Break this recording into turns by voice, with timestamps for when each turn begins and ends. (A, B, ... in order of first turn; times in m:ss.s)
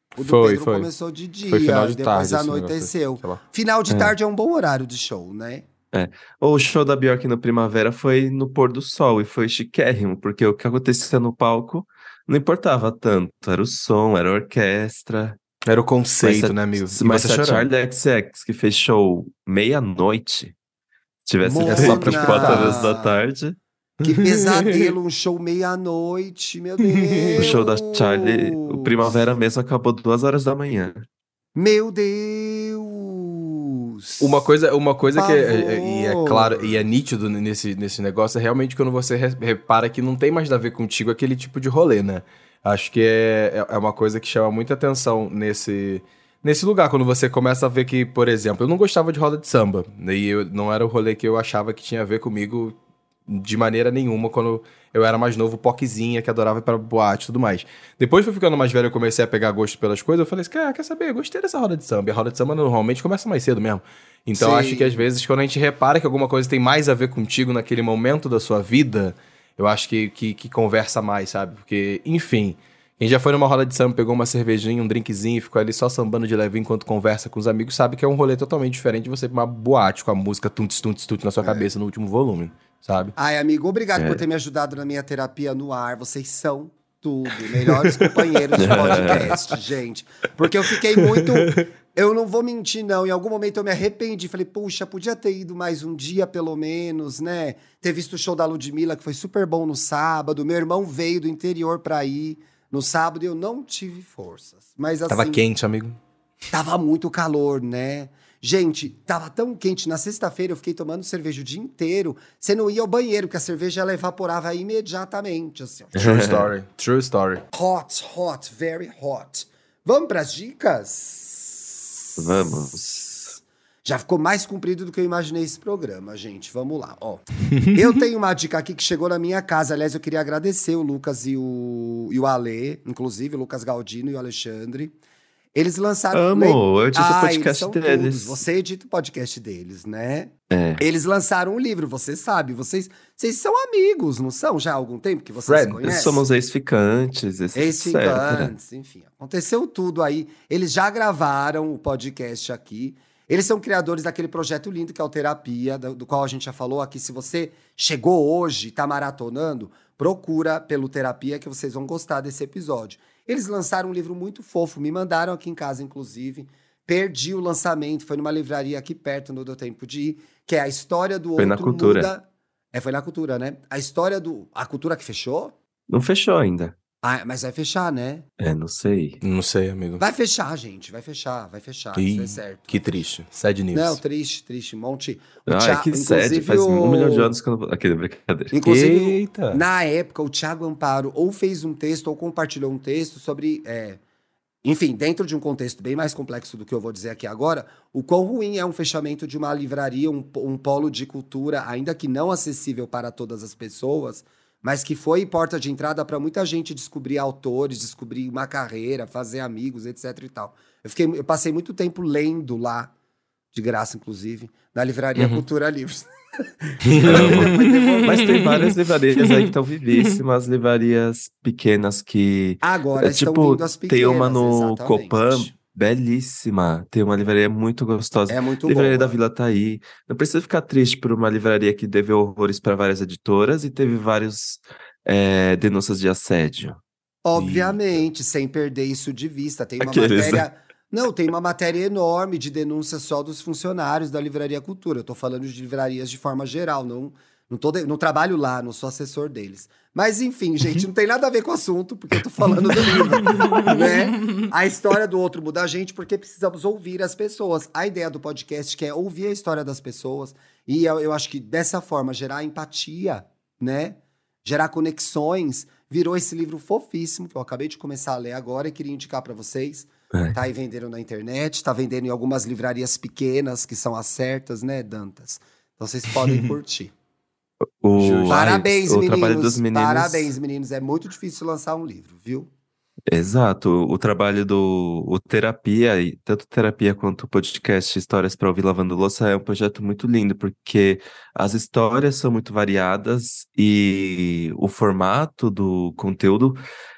0:00.2-0:00.9 A
0:00.2-0:05.6 B
0:01.5-0:03.4 A
0:03.9-0:04.1 C
0:05.9-0:15.4 C
0:15.7-0:17.7 A
0:16.2-0:20.5 C
0:21.2-0:23.6 C
0:21.4-0:23.2 B
0:21.7-0:22.9 A
0:24.0-0:24.9 A
0:24.0-0:29.3 B
0:26.8-0:27.5 A
0:27.4-0:31.0 C
0:31.6-0:34.5 B
0:34.2-0:52.8 A
0:35.1-0:36.8 B
0:53.3-1:23.1 A
1:04.4-1:05.0 B
1:23.2-1:45.4 B
1:24.0-1:24.2 C
1:27.5-1:29.4 A
1:28.6-1:29.3 C
1:30.9-1:31.6 A
1:45.1-1:46.0 A
1:46.5-1:56.3 B
1:55.9-1:56.5 C
1:56.0-1:57.4 A
1:57.5-2:14.9 B
2:02.2-2:03.0 C
2:15.5-2:26.2 B
2:16.1-2:18.4 C
2:20.5-2:20.8 C
2:25.5-2:25.8 A
2:25.8-2:28.5 C
2:27.5-2:55.5 B
2:51.4-2:52.1 C
2:55.9-2:56.8 C
2:57.0-2:58.2 B
2:58.4-2:59.2 C
2:59.2-3:00.0 A
3:00.0-3:03.0 B
3:01.9-3:04.0 A
3:03.7-3:07.3 B
3:05.5-3:08.5 C
3:08.5-3:14.0 B
3:08.6-3:09.6 A
3:14.6-3:32.9 B
3:33.5-3:36.1 B
3:35.2-3:35.4 A
3:36.6-3:38.6 B
3:36.8-3:40.1 A
3:37.0-3:56.8 C
3:42.6-3:45.5 B
3:48.3-3:49.2 B
3:57.2-4:36.9 B
3:57.3-3:58.0 A
3:59.8-4:00.4 C
4:12.8-4:14.5 A
4:37.8-4:40.3 C
4:38.0-4:38.6 A
4:38.3-4:42.5 B
4:43.1-4:56.6 C